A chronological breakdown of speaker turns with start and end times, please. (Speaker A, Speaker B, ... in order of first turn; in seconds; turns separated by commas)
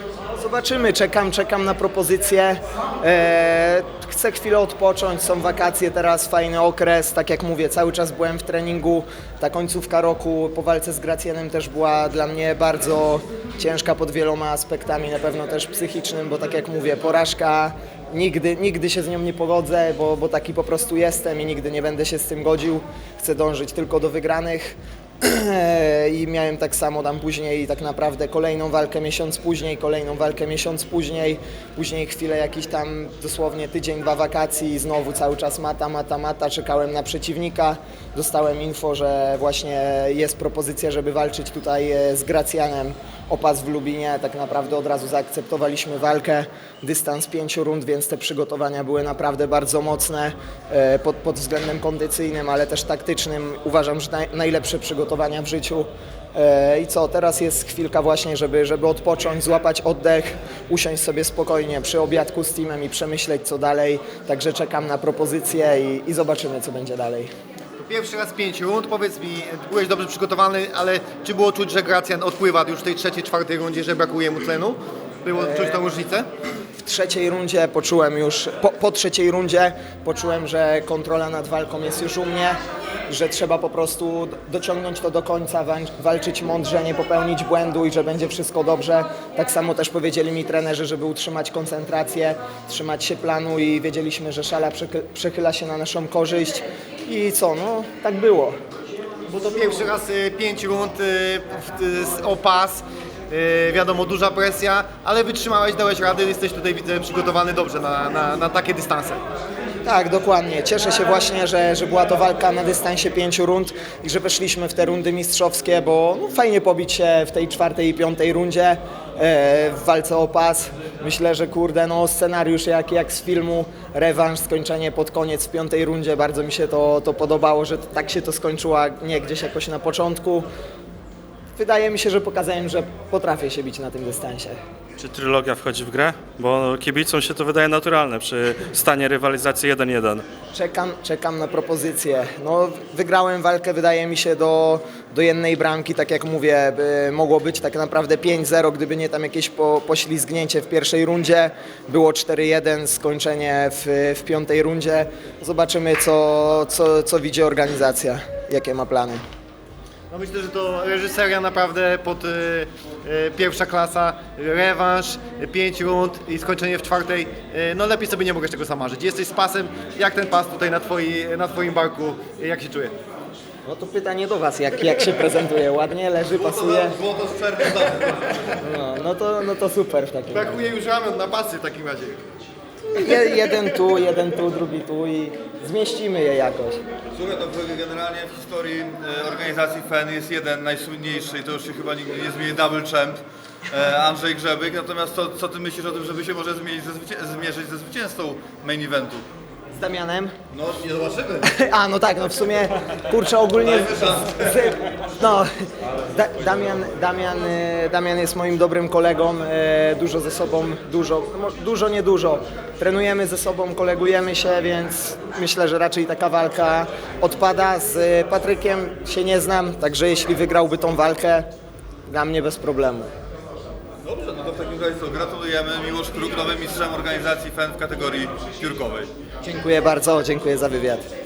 Speaker A: 0.3-67.3, Speaker B: 67.8-76.3, Speaker A: 75.4-75.8, Speaker A: 76.8-98.6, Speaker B: 99.3-109.2, Speaker A: 109.8-130.5, Speaker A: 131.6-134.6, Speaker C: 135.0-140.3, Speaker A: 140.5-159.2, Speaker B: 160.1-172.9, Speaker A: 173.7-177.0, Speaker D: 176.3-178.6, Speaker A: 178.6-180.6, Speaker B: 180.3-182.2, Speaker A: 182.9-186.8, Speaker D: 187.1-199.2, Speaker A: 199.7-200.3, Speaker D: 200.5-201.5, Speaker A: 201.4-205.5, Speaker D: 203.6-204.7, Speaker A: 206.1-221.5, Speaker A: 222.1-223.1, Speaker D: 224.0-229.1, Speaker A: 229.4-231.1